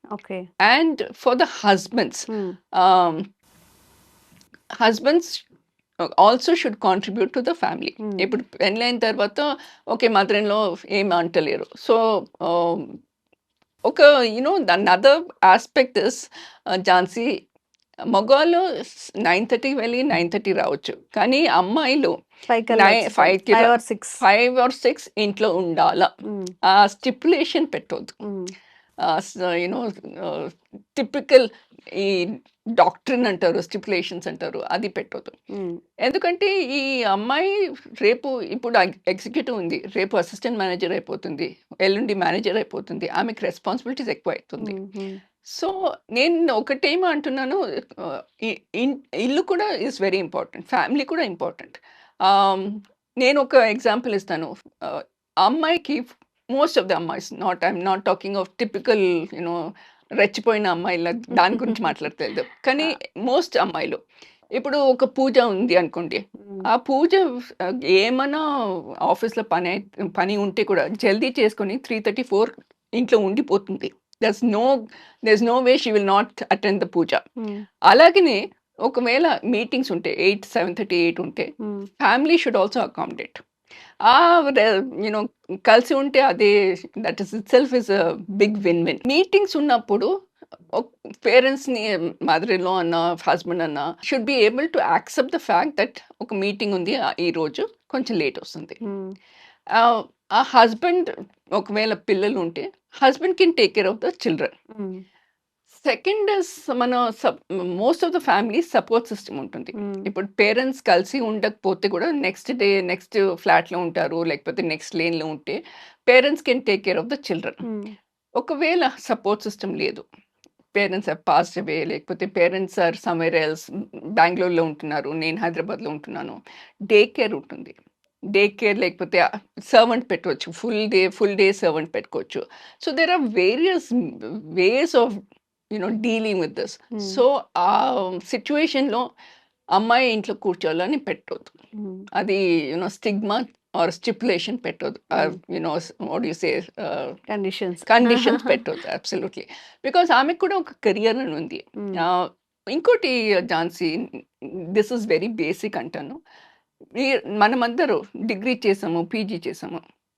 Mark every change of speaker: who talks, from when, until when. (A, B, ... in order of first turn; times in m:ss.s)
0:00.1-0:00.5 A
0:00.6-0:03.3 B
0:04.8-0:05.4 B
0:06.0-0:13.0 B
0:13.9-0:17.3 B
0:18.1-0:22.2 B
0:22.5-0:24.2 A
0:22.7-0:26.1 B
0:26.3-0:26.5 A
0:26.7-0:28.2 B
0:28.2-0:28.5 A
0:29.0-0:35.4 B
0:35.6-0:35.8 A
0:36.0-0:44.7 B
0:44.6-0:45.2 A
0:45.5-0:59.6 B
1:00.2-1:04.0 B
1:01.4-1:01.8 A
1:04.6-1:08.4 B
1:09.0-1:17.2 B
1:17.9-1:23.4 B
1:21.6-1:21.9 A
1:24.0-1:30.1 B
1:30.7-1:38.8 B
1:38.8-1:39.2 A
1:39.8-1:44.5 B
1:44.8-1:45.0 A
1:45.8-1:57.6 B
1:49.8-1:50.1 A
1:57.6-1:57.9 A
1:58.4-2:00.0 B
2:00.8-2:03.6 B
2:04.2-2:06.4 B
2:06.9-2:07.8 B
2:08.3-2:15.2 B
2:15.7-2:19.0 B
2:17.0-2:17.2 A
2:19.8-2:21.5 B
2:21.8-2:22.0 A
2:22.2-2:27.2 B
2:27.3-2:28.6 A
2:27.9-2:36.2 B
2:37.0-2:39.8 B